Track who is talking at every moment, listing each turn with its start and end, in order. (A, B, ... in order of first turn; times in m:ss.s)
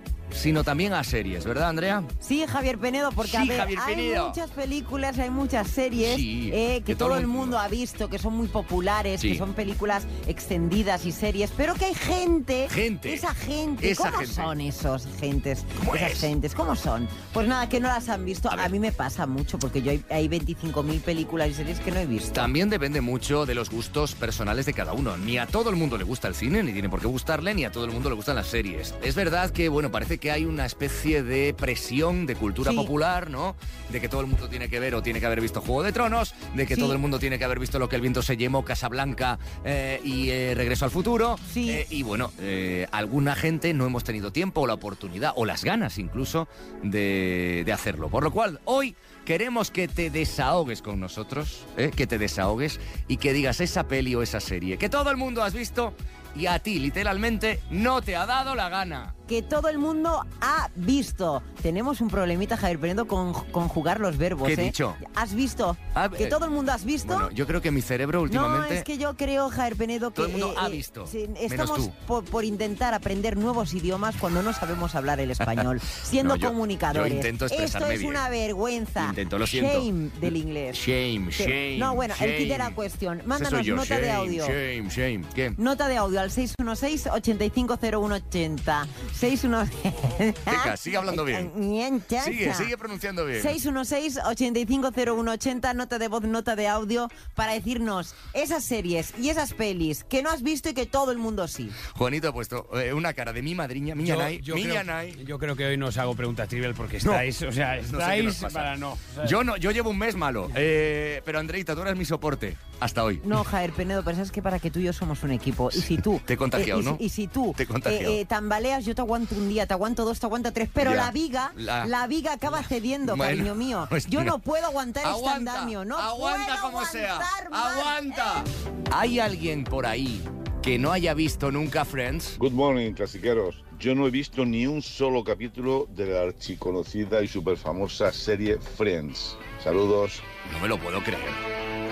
0:00.3-0:02.1 A
0:02.2-0:22.5 B
0:03.2-0:04.4 A
0:06.0-0:07.6 A
0:12.7-0:13.3 A
0:13.8-0:14.5 A
0:15.8-0:16.3 A
0:22.3-0:59.1 A
0:32.6-0:32.9 B
0:36.7-0:37.0 B
0:41.5-0:41.8 B
0:59.3-1:07.3 B
1:04.4-1:05.0 A
1:05.9-1:06.4 A
1:07.0-1:08.9 A
1:08.3-1:20.8 B
1:10.2-1:11.9 A
1:16.2-1:18.2 A
1:19.0-1:22.8 A
1:21.4-1:24.6 B
1:23.3-1:25.6 A
1:25.6-1:32.7 B
1:30.5-1:31.5 A
1:32.2-1:33.6 A
1:33.4-1:41.8 B
1:41.9-1:45.2 A
1:44.0-1:49.4 C
1:47.0-1:53.4 A
1:53.2-2:08.5 B
1:55.7-1:57.0 A
1:57.6-1:58.2 A
2:00.8-2:01.9 A
2:03.0-2:04.4 A
2:05.0-2:12.4 A
2:12.4-2:20.3 D
2:20.5-2:21.4 A